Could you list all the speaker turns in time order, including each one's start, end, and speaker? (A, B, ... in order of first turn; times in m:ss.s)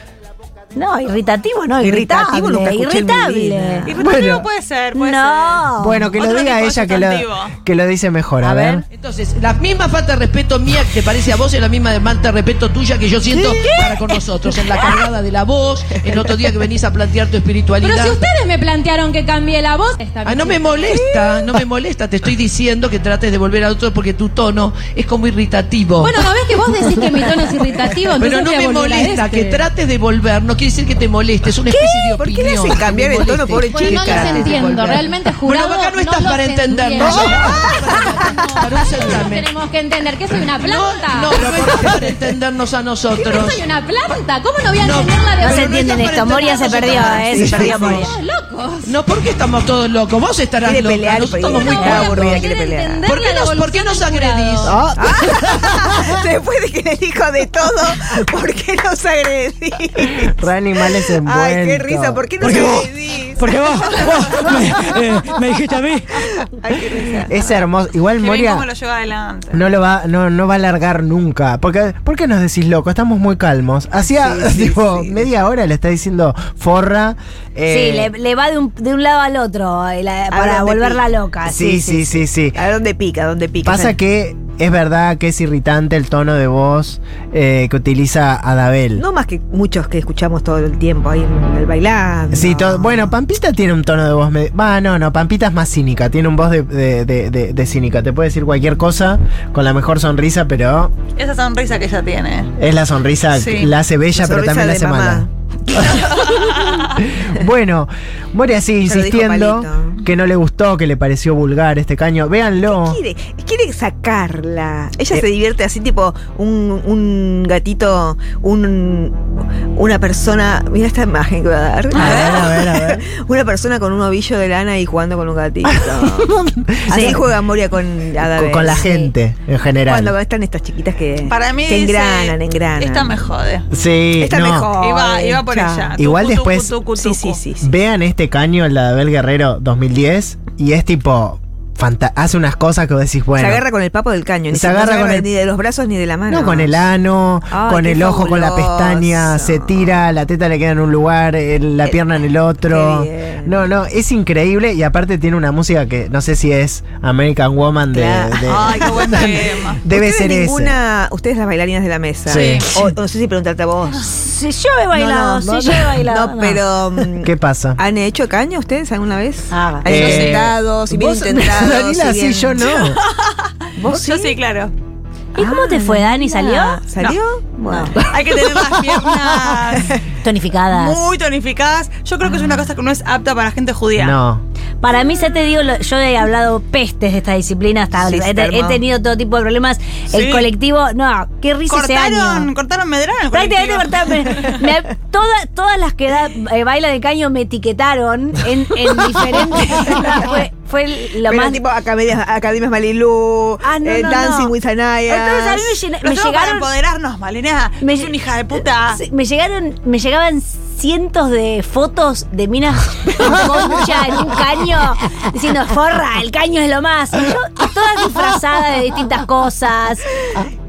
0:00.8-0:03.9 A
0:01.8-0:04.0 B
0:03.9-0:05.6 C
0:04.0-0:04.5 D
0:05.0-0:06.1 A
0:05.8-0:08.8 D
0:06.2-0:07.5 C
0:08.4-0:08.8 A
0:08.9-0:18.2 E
0:13.4-0:14.1 A
0:17.8-0:21.4 F
0:20.2-0:26.8 E
0:26.0-0:29.6 F
0:28.1-0:39.5 E
0:31.7-0:34.7 B
0:33.1-0:42.1 F
0:37.0-0:38.5 B
0:40.5-0:43.7 E
0:41.4-0:42.0 B
0:43.1-0:45.7 F
0:44.7-0:48.1 E
0:45.4-0:48.1 A
0:46.4-0:49.0 F
0:46.9-0:48.0 B
0:47.4-0:48.0 D
0:48.8-0:52.5 E
0:50.6-0:53.1 B
0:51.6-0:54.8 F
0:51.8-0:52.2 A
0:53.0-0:54.9 E
0:54.6-0:55.5 D
0:55.0-1:00.4 B
1:00.3-1:02.2 D
1:01.2-1:05.1 B
1:02.4-1:02.8 G
1:03.4-1:06.0 G
1:06.1-1:07.6 B
1:07.3-1:08.7 D
1:08.2-1:09.6 C
1:09.5-1:18.1 D
1:14.1-1:15.2 B
1:17.7-1:22.2 A
1:20.3-1:21.0 B
1:21.4-1:22.6 D
1:22.5-1:24.0 B
1:23.6-1:29.0 D
1:29.0-1:33.2 B
1:32.3-1:40.9 D
1:41.2-1:42.5 C
1:42.6-1:45.3 D
1:43.3-1:43.7 C
1:44.2-1:46.4 B
1:45.8-1:46.2 D
1:45.8-1:47.0 C
1:47.0-1:53.0 D
1:48.8-1:50.0 B
1:52.6-2:06.3 B
2:01.9-2:02.4 C
2:01.9-2:03.0 D
2:05.7-2:07.2 D
2:06.9-2:09.1 B
2:08.3-2:10.2 D
2:09.9-2:13.2 B
2:11.3-2:13.7 C
2:13.7-2:14.7 D
2:14.2-2:15.9 B
2:14.8-2:17.4 C
2:16.0-2:16.8 D
2:16.9-2:17.7 B
2:17.6-2:23.6 D
2:23.4-2:26.8 B
2:24.5-2:25.3 D
2:26.3-2:40.8 D
2:27.5-2:30.0 B
2:32.6-2:33.7 B
2:37.9-2:39.3 B
2:38.5-2:39.8 C
2:39.9-2:44.1 B
2:42.3-2:42.9 D
2:42.3-2:42.7 C
2:43.9-2:46.6 A
2:44.9-2:52.9 B
2:47.2-2:47.8 D
2:49.5-2:50.4 A
2:49.9-2:53.0 D
2:52.8-2:54.7 C
2:53.8-2:54.4 B
2:55.4-2:56.8 A
2:55.4-2:58.1 B
2:58.0-2:59.9 C
2:58.4-2:59.3 D
3:00.2-3:01.0 A
3:00.7-3:04.2 C
3:04.0-3:04.4 D
3:04.8-3:12.5 A
3:08.0-3:08.8 B
3:10.1-3:10.5 C
3:11.7-3:14.6 C
3:13.3-3:21.6 A
3:21.3-3:25.8 B
3:23.6-3:24.5 A
3:25.1-3:26.7 A
3:26.0-3:29.0 C
3:27.8-3:40.1 A